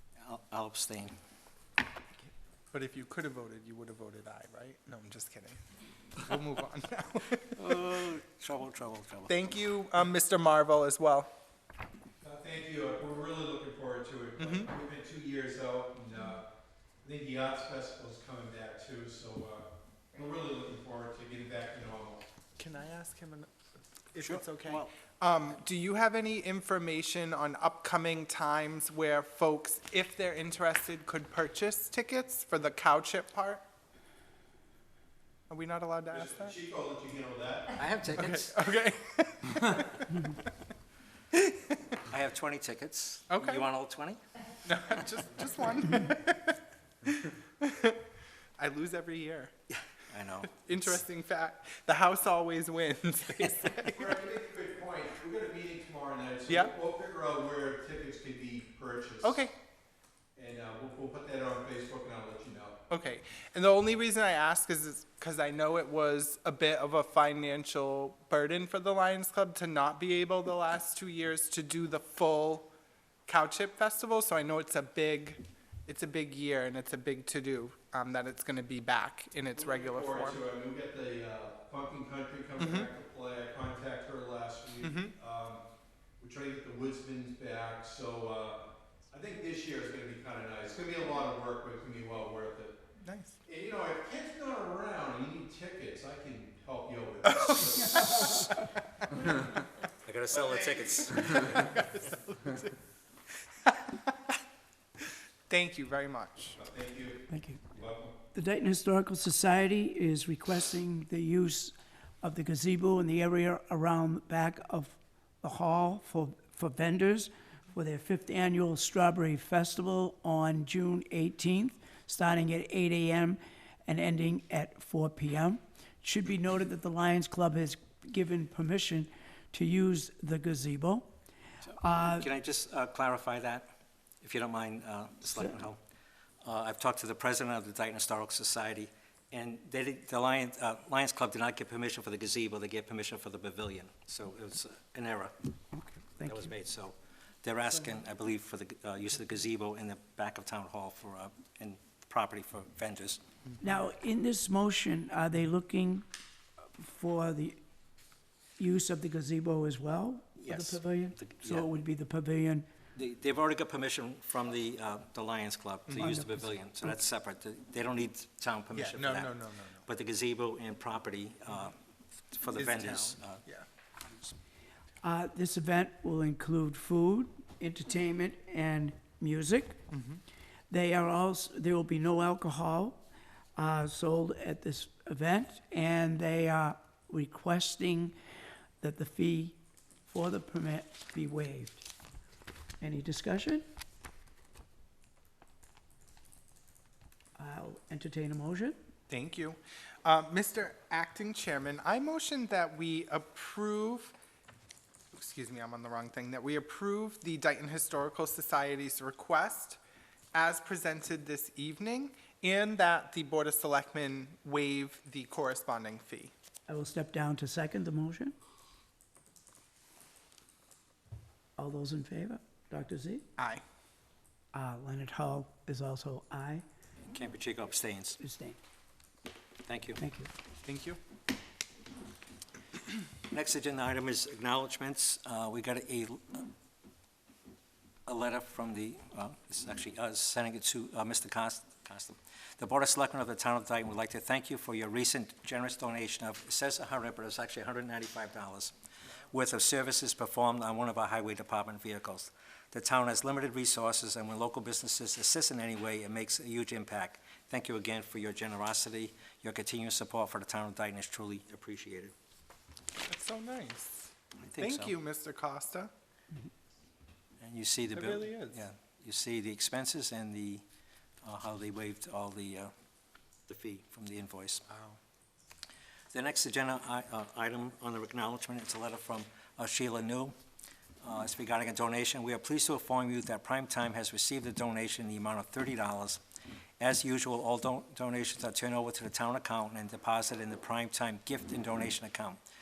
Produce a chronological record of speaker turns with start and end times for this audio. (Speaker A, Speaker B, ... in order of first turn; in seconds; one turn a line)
Speaker A: 0.2-1.1
Speaker B: 2.7-5.6
Speaker B: 6.2-7.5
Speaker A: 7.5-9.4
Speaker B: 9.3-11.3
Speaker C: 12.2-16.4
Speaker B: 14.4-14.7
Speaker C: 17.0-22.2
Speaker B: 22.6-23.5
Speaker B: 24.1-33.6
Speaker A: 24.6-24.9
Speaker B: 35.5-36.5
Speaker C: 36.1-37.8
Speaker A: 37.8-38.6
Speaker B: 38.1-40.1
Speaker B: 41.3-41.7
Speaker A: 42.0-44.2
Speaker B: 43.3-43.6
Speaker B: 44.6-46.5
Speaker B: 47.1-48.0
Speaker B: 48.6-49.5
Speaker A: 49.7-50.5
Speaker B: 50.5-54.1
Speaker A: 53.4-53.6
Speaker C: 53.9-59.4
Speaker B: 59.2-59.5
Speaker C: 60.4-62.8
Speaker B: 62.9-72.7
Speaker B: 73.3-80.4
Speaker C: 79.5-85.6
Speaker B: 82.6-82.9
Speaker B: 84.8-85.1
Speaker C: 86.2-92.8
Speaker B: 93.0-93.4
Speaker C: 93.4-98.2
Speaker B: 97.3-98.5
Speaker D: 98.0-98.4
Speaker A: 100.0-101.6
Speaker C: 100.3-101.7
Speaker B: 101.4-102.7
Speaker B: 103.3-104.3
Speaker B: 105.5-106.6
Speaker C: 106.6-108.1
Speaker D: 107.3-107.6
Speaker D: 108.3-131.1
Speaker A: 131.6-133.7
Speaker D: 131.8-132.3
Speaker A: 134.2-135.8
Speaker A: 136.4-145.3
Speaker D: 145.7-146.5
Speaker A: 146.2-153.2
Speaker D: 153.6-156.1
Speaker D: 156.8-157.6
Speaker D: 158.6-162.7
Speaker A: 160.4-161.7
Speaker A: 162.9-169.3
Speaker D: 166.0-166.5
Speaker B: 168.7-169.8
Speaker A: 169.8-171.8
Speaker A: 172.3-173.4
Speaker B: 172.5-173.7
Speaker A: 174.0-174.3
Speaker D: 175.0-179.8
Speaker B: 179.9-180.2
Speaker D: 180.7-183.0
Speaker D: 183.6-188.1
Speaker D: 188.8-191.9
Speaker D: 192.8-193.6
Speaker D: 197.4-198.8
Speaker B: 199.1-204.1
Speaker B: 205.1-209.8
Speaker B: 210.3-216.3
Speaker D: 216.7-218.3
Speaker D: 221.6-223.2
Speaker B: 223.4-223.6
Speaker D: 224.5-226.6
Speaker A: 227.1-228.2
Speaker D: 228.2-228.6
Speaker A: 229.6-230.0
Speaker D: 230.0-230.3
Speaker B: 230.6-231.0
Speaker A: 233.3-236.5
Speaker A: 238.1-248.7
Speaker A: 249.3-262.1
Speaker B: 263.1-265.9
Speaker A: 264.4-264.9
Speaker A: 267.4-270.6
Speaker B: 267.9-268.6
Speaker A: 271.2-272.7
Speaker A: 273.5-274.6
Speaker B: 274.7-275.0
Speaker A: 276.1-280.3
Speaker A: 281.0-286.2
Speaker A: 286.8-292.4